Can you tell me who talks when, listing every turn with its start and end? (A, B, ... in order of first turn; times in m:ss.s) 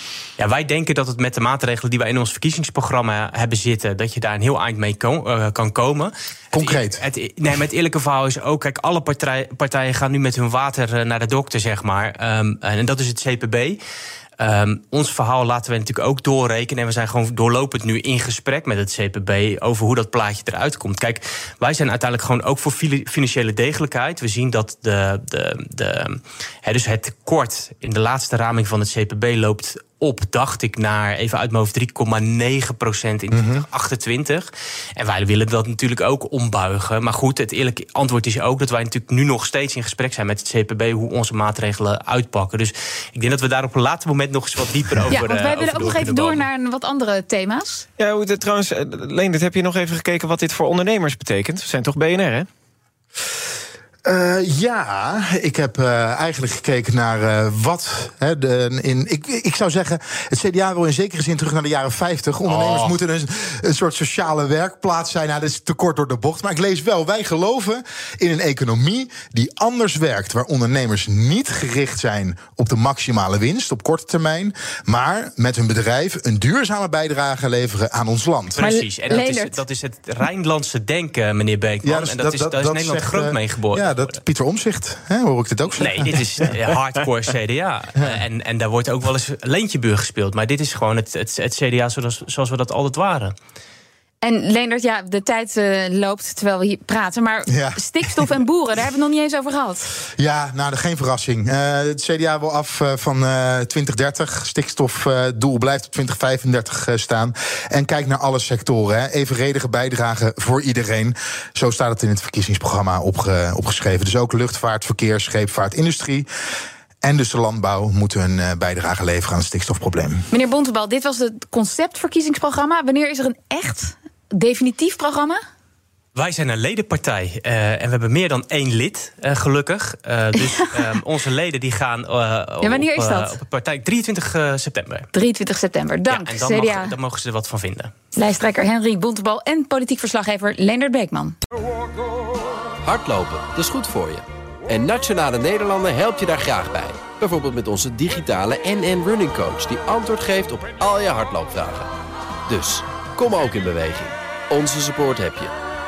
0:00.4-0:13.8 A
0:06.5-0:07.0 B
0:14.4-0:46.4 A
0:33.3-0:33.6 B
0:45.1-0:47.8 C
0:48.0-0:52.4 D
0:54.0-1:19.2 B
1:02.4-1:03.0 A
1:18.5-1:24.2 A
1:18.6-1:19.6 C
1:21.8-1:26.4 B
1:25.8-1:33.3 A
1:34.2-1:39.9 C
1:37.5-1:38.2 B
1:40.1-1:56.3 B
1:57.0-2:00.3 B
2:00.3-2:05.4 C
2:06.1-2:15.1 A
2:10.5-2:10.9 C
2:12.6-2:13.3 C
2:15.1-2:16.9 C
2:16.1-2:17.9 A
2:18.1-2:21.4 C
2:22.8-2:31.9 E
2:32.5-2:35.5 E